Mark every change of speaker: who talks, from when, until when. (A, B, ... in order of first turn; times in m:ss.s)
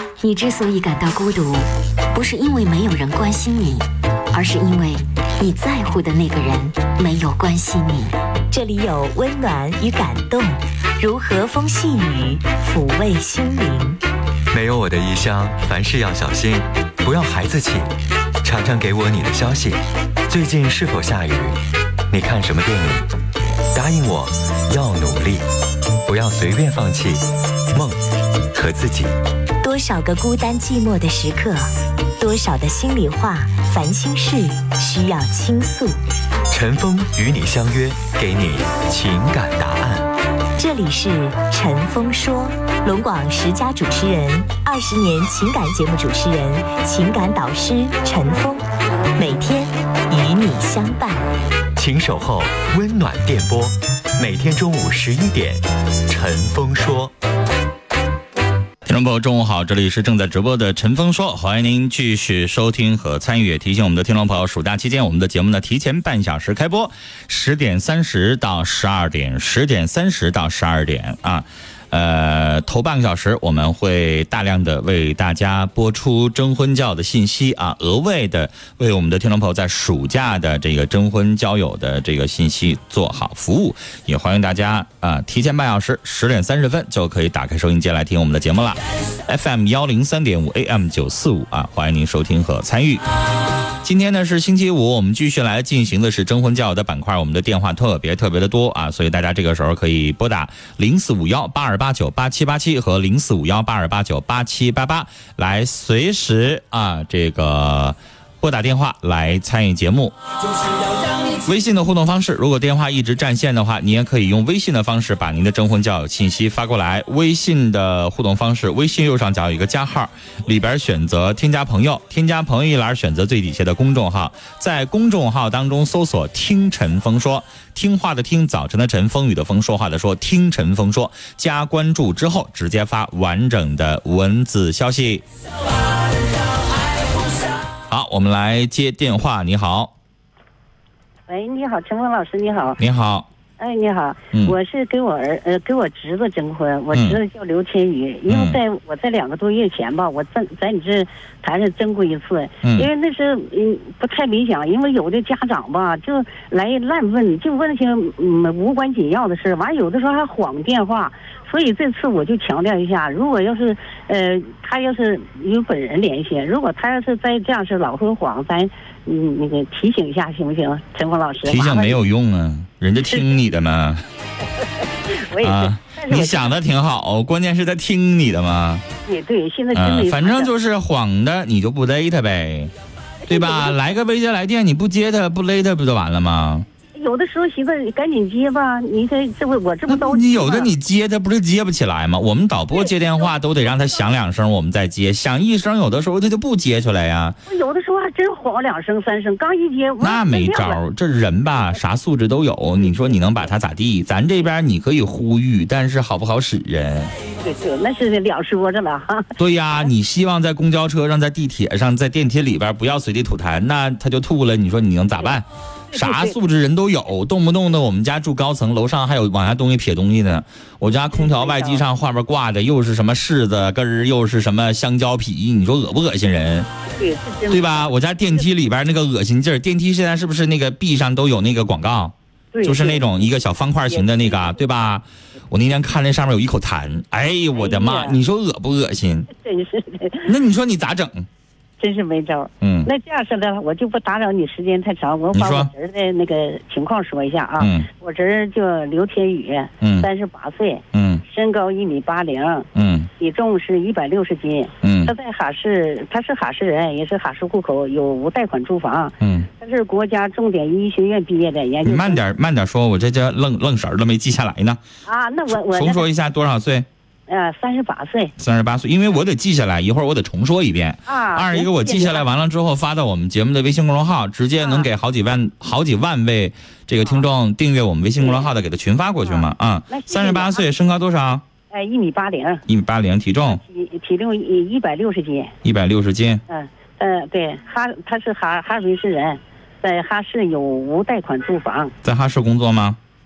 0:00.2-0:08.2 A
0:08.5-0:14.0 B
0:14.5-0:21.6 C
0:22.1-0:23.1 C
0:23.7-0:25.4 C
0:26.0-0:28.0 C
0:28.5-0:29.2 C
0:29.6-0:36.0 B
0:36.5-0:40.1 C
0:40.6-0:51.3 B
0:51.8-0:57.1 C
0:58.8-1:33.0 D
1:33.8-1:50.2 D
1:51.3-2:15.2 D
2:17.9-2:19.9 D
2:21.3-2:22.8 E
2:22.8-2:23.3 D
2:23.6-2:52.0 E
2:26.9-2:27.2 D
2:28.3-2:28.6 D
2:32.6-2:32.9 D
2:51.4-2:54.0 D
2:54.6-2:56.6 E
2:55.4-2:58.8 D
2:59.0-3:00.5 E
2:59.7-3:02.7 D
3:03.2-3:03.8 E
3:03.3-3:06.7 D
3:06.9-3:10.7 E
3:09.9-3:17.4 D
3:17.5-3:20.8 E
3:20.0-3:27.1 D
3:27.4-3:29.3 E
3:29.4-3:46.7 D
3:35.9-3:36.4 E
3:41.1-3:41.8 E
3:47.0-3:47.9 E
3:47.5-3:59.3 D
3:52.5-3:53.2 E
3:53.9-3:54.6 E
3:57.5-3:58.2 E
3:59.3-4:00.3 E
4:00.2-4:01.3 D
4:01.8-4:12.7 E
4:02.6-4:02.9 D
4:05.3-4:05.7 D
4:07.6-4:07.9 D
4:09.8-4:10.1 D
4:10.9-4:11.2 D
4:12.7-4:13.1 D
4:13.2-4:22.2 E
4:14.8-4:15.1 D
4:19.2-4:19.5 D
4:21.8-4:24.8 D
4:25.0-4:26.0 E
4:25.7-4:26.9 D
4:27.3-4:28.3 E
4:28.4-4:41.4 D
4:31.1-4:32.2 E
4:34.6-4:34.9 E
4:39.2-4:40.6 E
4:41.7-4:42.6 E
4:42.7-4:43.6 D
4:43.4-4:45.5 E
4:45.6-4:46.4 D
4:46.5-4:51.9 E
4:52.0-4:53.0 D